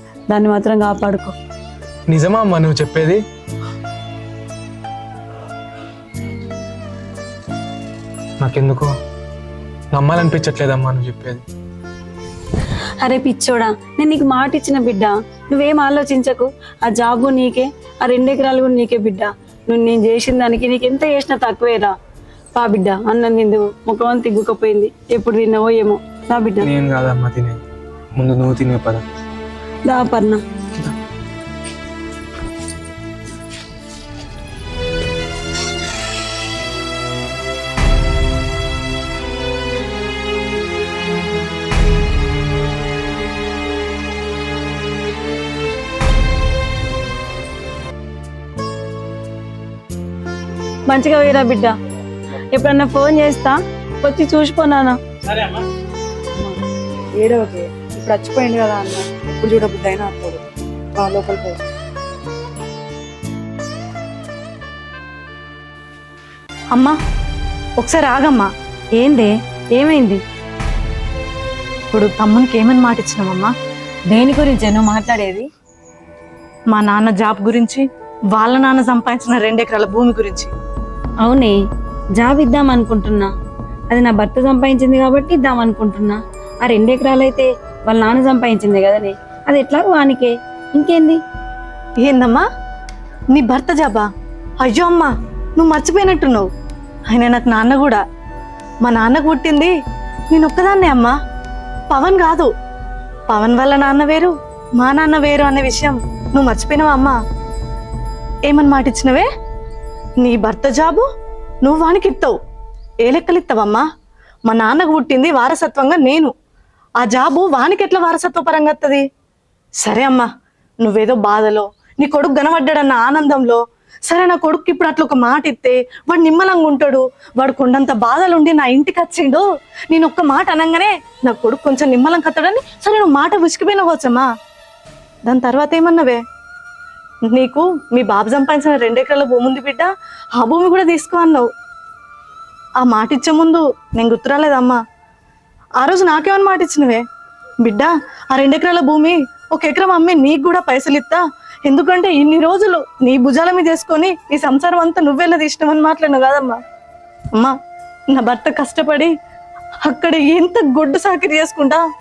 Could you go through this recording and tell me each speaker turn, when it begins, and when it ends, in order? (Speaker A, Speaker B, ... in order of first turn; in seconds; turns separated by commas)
Speaker A: 0.3-1.3, Speaker B: 2.1-3.2, Speaker B: 8.4-8.9, Speaker B: 9.9-11.4, Speaker A: 13.0-21.9, Speaker A: 22.6-26.7, Speaker B: 26.6-27.6, Speaker B: 28.2-29.0, Speaker A: 29.9-30.4, Speaker A: 50.9-51.7, Speaker A: 52.5-55.0, Speaker C: 57.2-60.4, Speaker C: 61.0-61.6, Speaker D: 67.8-68.5, Speaker A: 69.0-70.2, Speaker D: 71.9-73.5, Speaker A: 74.1-75.5, Speaker D: 76.7-77.8, Speaker D: 78.4-80.5, Speaker A: 81.2-81.6, Speaker A: 82.2-83.3, Speaker A: 83.9-91.2, Speaker D: 92.0-92.5, Speaker D: 93.3-94.1, Speaker D: 94.6-96.5, Speaker D: 97.1-98.0, Speaker D: 98.8-99.7, Speaker D: 100.3-101.1, Speaker D: 101.9-102.5, Speaker D: 103.3-107.2, Speaker D: 108.5-109.3, Speaker D: 110.2-111.1, Speaker D: 111.6-112.3, Speaker D: 113.1-113.8, Speaker D: 114.5-116.3, Speaker D: 117.0-119.0, Speaker D: 119.8-120.3, Speaker D: 120.8-134.3, Speaker D: 135.3-136.2, Speaker D: 137.3-141.4, Speaker D: 142.8-144.8, Speaker D: 145.8-147.0, Speaker D: 147.6-156.6, Speaker D: 158.1-159.1, Speaker D: 159.9-161.8